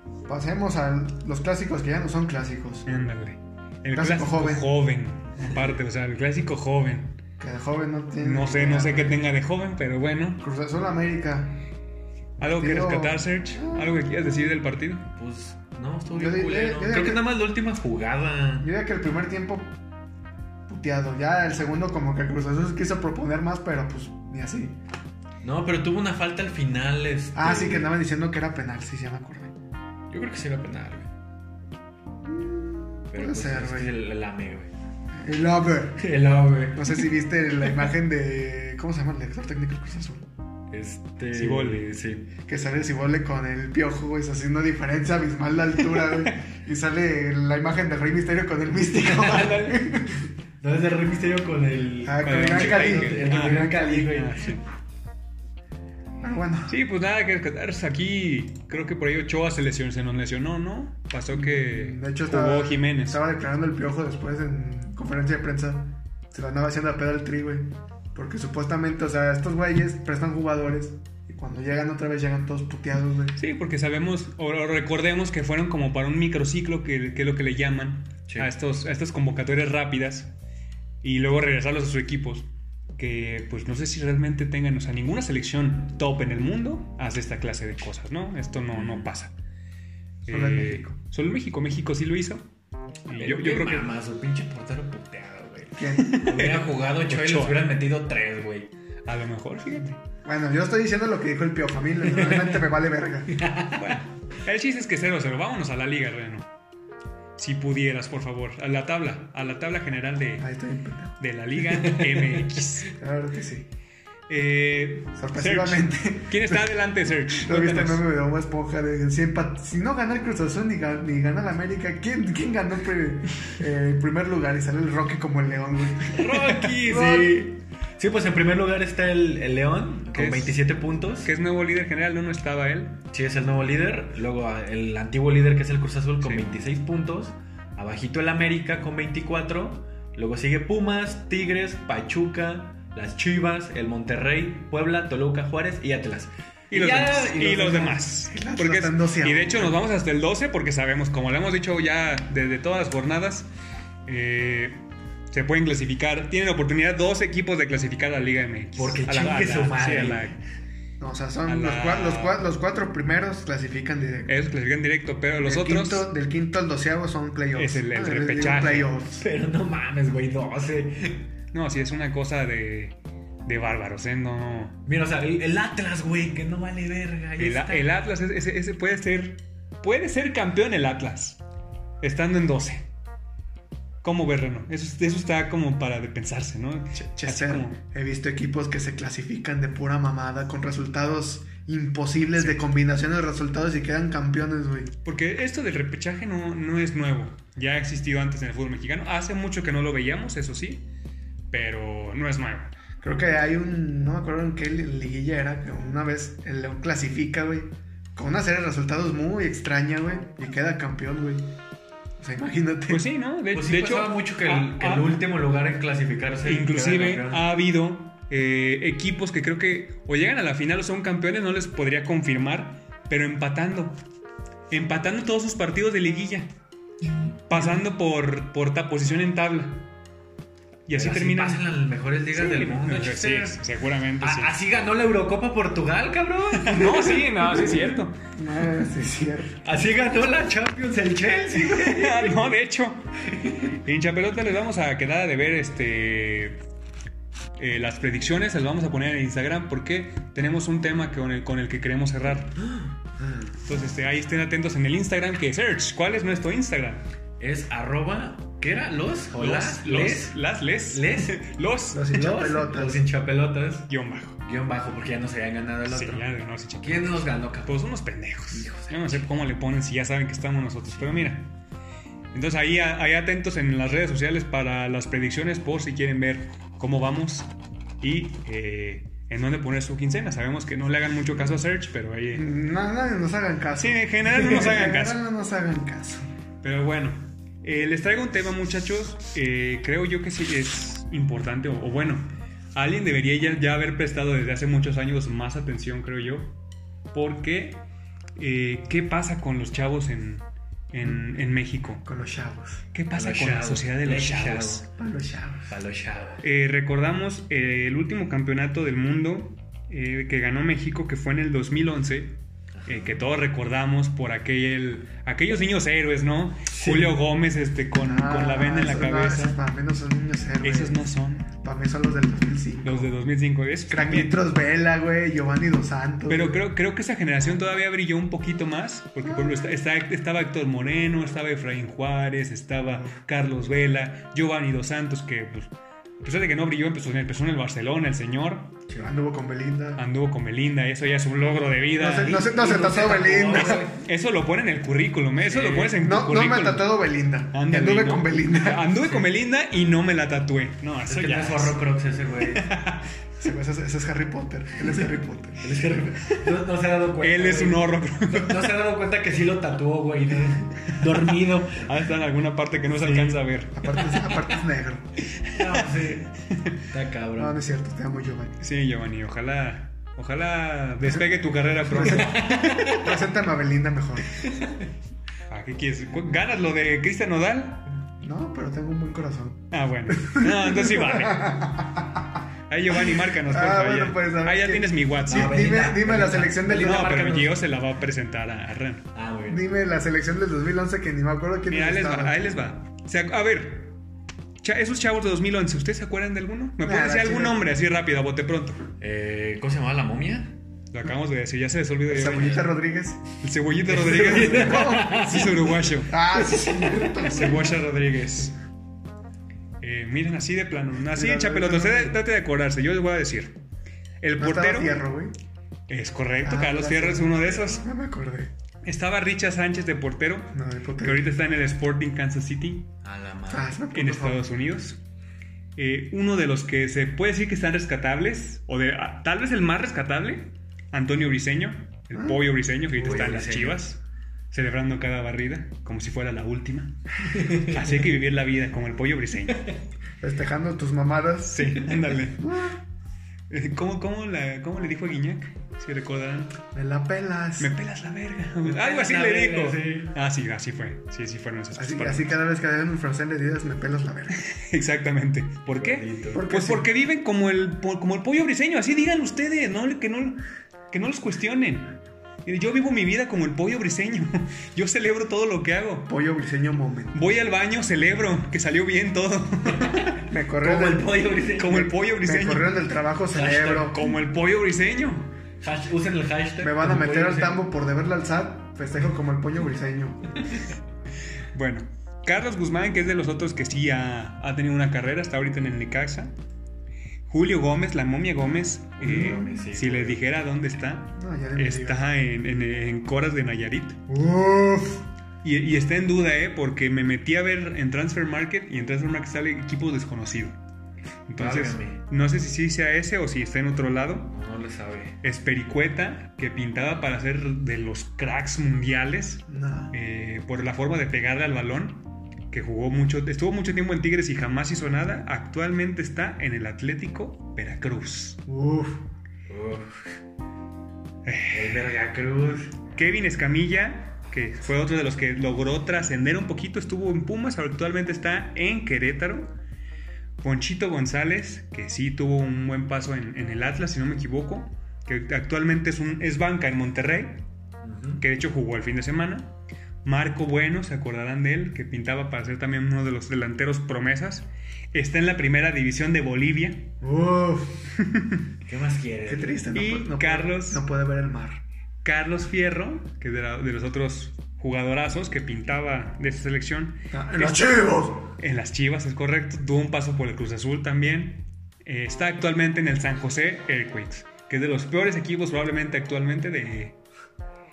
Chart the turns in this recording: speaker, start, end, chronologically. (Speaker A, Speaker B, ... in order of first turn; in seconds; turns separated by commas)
Speaker A: 0.3-2.9, Speaker B: 2.9-7.2, Speaker A: 3.9-4.7, Speaker A: 7.4-9.2, Speaker B: 8.2-10.4, Speaker A: 10.4-11.6, Speaker B: 12.4-15.1, Speaker A: 12.4-14.1, Speaker C: 15.1-18.7, Speaker A: 16.1-17.2, Speaker A: 18.6-19.7, Speaker A: 20.7-24.8, Speaker C: 25.4-27.9, Speaker A: 27.3-29.5, Speaker C: 30.1-31.1, Speaker A: 32.2-34.0, Speaker C: 33.1-34.7, Speaker A: 35.1-36.0, Speaker C: 36.0-37.0, Speaker A: 36.7-40.3, Speaker C: 40.7-42.3, Speaker B: 41.3-41.9, Speaker A: 42.5-50.2, Speaker C: 49.0-49.7, Speaker B: 49.2-49.8, Speaker C: 50.6-54.5, Speaker A: 52.0-53.7, Speaker B: 52.2-54.6, Speaker A: 56.2-56.7, Speaker B: 56.7-63.2, Speaker A: 61.3-73.4, Speaker B: 73.4-80.3, Speaker B: 81.0-89.3, Speaker C: 88.7-89.1, Speaker B: 90.2-92.4, Speaker A: 90.3-90.9, Speaker B: 93.1-93.9, Speaker C: 93.2-98.7, Speaker A: 95.7-96.2, Speaker B: 96.0-97.7, Speaker B: 99.0-100.0, Speaker A: 100.2-103.4, Speaker C: 102.1-102.6, Speaker C: 103.3-104.0, Speaker B: 103.8-106.5, Speaker B: 107.4-110.5, Speaker A: 110.4-111.2, Speaker B: 111.2-112.9, Speaker C: 111.7-112.5, Speaker A: 113.0-113.7, Speaker B: 114.3-118.0, Speaker A: 115.2-116.7, Speaker A: 117.3-126.3, Speaker C: 126.1-131.3, Speaker B: 126.2-127.3, Speaker A: 126.9-127.3, Speaker B: 130.1-130.6, Speaker B: 131.2-133.0, Speaker C: 133.1-147.9, Speaker B: 146.7-153.5, Speaker A: 147.4-149.8, Speaker B: 154.1-160.4, Speaker C: 158.8-160.3, Speaker A: 161.0-164.4, Speaker B: 161.4-162.4, Speaker B: 164.3-166.1, Speaker A: 165.4-169.2, Speaker B: 167.5-168.9, Speaker C: 169.2-171.3, Speaker B: 171.5-172.9, Speaker B: 173.4-174.8, Speaker C: 174.8-177.9, Speaker B: 177.4-181.4, Speaker B: 182.0-182.8, Speaker B: 184.0-187.8, Speaker A: 187.0-194.9, Speaker B: 195.0-200.8, Speaker B: 201.5-202.7, Speaker A: 203.0-211.5, Speaker A: 212.2-213.0, Speaker B: 212.9-215.2, Speaker C: 213.5-217.4, Speaker B: 216.4-224.0, Speaker B: 224.7-226.5, Speaker B: 227.5-229.9, Speaker B: 230.9-231.7, Speaker C: 230.9-233.6, Speaker B: 232.3-234.5, Speaker C: 234.2-237.9, Speaker B: 236.5-238.2, Speaker A: 238.3-239.6, Speaker C: 239.6-242.5, Speaker B: 241.6-246.6, Speaker B: 247.6-252.6, Speaker C: 252.6-253.5, Speaker B: 253.6-257.0, Speaker C: 257.4-260.4, Speaker B: 259.3-262.1, Speaker C: 260.9-261.4, Speaker A: 261.9-263.0, Speaker C: 262.1-263.9, Speaker B: 263.9-264.4, Speaker C: 264.4-266.3, Speaker B: 265.9-271.5, Speaker C: 266.8-267.8, Speaker C: 268.5-269.3, Speaker B: 272.3-277.5, Speaker B: 278.0-282.4, Speaker A: 282.3-286.3, Speaker B: 283.8-285.2, Speaker B: 286.6-296.5, Speaker B: 297.1-297.8, Speaker B: 298.4-302.0, Speaker A: 302.0-302.8, Speaker B: 302.9-304.9, Speaker C: 303.1-304.8, Speaker A: 304.9-305.7, Speaker C: 305.7-306.4, Speaker B: 306.4-319.6, Speaker C: 312.8-313.2, Speaker C: 316.7-317.1, Speaker A: 318.0-323.1, Speaker B: 320.6-321.5, Speaker B: 322.8-324.4, Speaker A: 323.9-326.6, Speaker B: 326.3-338.8, Speaker A: 329.2-329.7, Speaker A: 339.0-340.0, Speaker B: 340.0-342.5, Speaker A: 342.0-343.8, Speaker C: 342.4-344.0, Speaker B: 343.6-346.9, Speaker C: 345.4-345.9, Speaker A: 345.9-348.9, Speaker B: 347.5-351.8, Speaker C: 351.1-352.7, Speaker B: 352.4-353.1, Speaker A: 353.4-355.7, Speaker C: 355.6-361.9, Speaker B: 357.2-358.8, Speaker B: 361.7-363.7, Speaker C: 362.9-363.4, Speaker A: 363.7-365.1, Speaker C: 365.5-366.3, Speaker C: 366.9-367.6, Speaker A: 367.4-368.6, Speaker B: 368.6-373.0, Speaker A: 371.0-374.3, Speaker C: 372.1-373.0, Speaker B: 375.5-377.8, Speaker A: 378.2-382.2, Speaker B: 379.7-381.7, Speaker B: 382.7-385.6, Speaker A: 383.0-387.4, Speaker C: 385.3-387.5, Speaker B: 386.7-389.1, Speaker C: 389.1-389.6, Speaker A: 389.5-392.6, Speaker B: 391.7-393.9, Speaker B: 394.6-398.8, Speaker A: 396.8-397.6, Speaker C: 399.0-400.5, Speaker B: 400.9-402.6, Speaker A: 402.1-403.2, Speaker C: 402.2-402.6, Speaker B: 403.4-406.1, Speaker C: 403.9-405.7, Speaker A: 404.4-405.1, Speaker A: 406.1-407.8, Speaker C: 406.6-406.9, Speaker B: 407.2-408.6, Speaker B: 409.8-413.5, Speaker A: 411.1-412.2, Speaker B: 414.2-415.0, Speaker A: 414.4-415.3, Speaker B: 415.9-417.8, Speaker A: 416.4-418.5, Speaker C: 417.4-417.8, Speaker B: 418.8-422.9, Speaker A: 420.5-421.3, Speaker C: 423.0-423.8, Speaker A: 423.5-424.4, Speaker B: 423.9-425.0, Speaker B: 425.8-434.0, Speaker C: 432.9-433.8, Speaker B: 434.5-439.8, Speaker C: 437.3-437.8, Speaker A: 440.2-442.8, Speaker B: 441.5-442.5, Speaker B: 443.5-446.6, Speaker A: 446.7-447.7, Speaker B: 447.6-452.3, Speaker C: 448.6-450.1, Speaker A: 451.7-454.4, Speaker B: 454.4-461.9, Speaker C: 455.7-456.4, Speaker A: 456.3-456.9, Speaker B: 462.4-466.1, Speaker A: 466.1-467.2, Speaker B: 467.1-470.2, Speaker C: 469.7-471.9, Speaker A: 470.3-471.1, Speaker B: 471.6-472.8, Speaker A: 472.0-474.0, Speaker C: 473.3-473.9, Speaker B: 473.8-475.3, Speaker C: 475.6-477.6, Speaker A: 476.6-480.4, Speaker B: 481.5-486.3, Speaker B: 487.3-494.0, Speaker C: 489.0-490.2, Speaker A: 489.0-489.6, Speaker A: 491.1-492.0, Speaker A: 494.1-495.1, Speaker B: 495.4-500.6, Speaker B: 501.3-504.3, Speaker C: 501.4-502.0, Speaker C: 504.3-505.1, Speaker B: 505.2-518.4, Speaker A: 509.5-509.9, Speaker A: 518.5-519.0, Speaker C: 519.5-520.0, Speaker B: 521.2-521.9, Speaker C: 521.5-522.8, Speaker B: 522.9-529.5, Speaker B: 530.4-537.5, Speaker C: 537.8-538.2, Speaker B: 538.2-539.5, Speaker B: 540.0-546.9, Speaker A: 547.0-547.8, Speaker B: 548.0-548.4, Speaker C: 548.6-549.6, Speaker A: 549.3-551.6, Speaker B: 549.7-550.8, Speaker B: 552.0-567.0, Speaker A: 557.1-558.3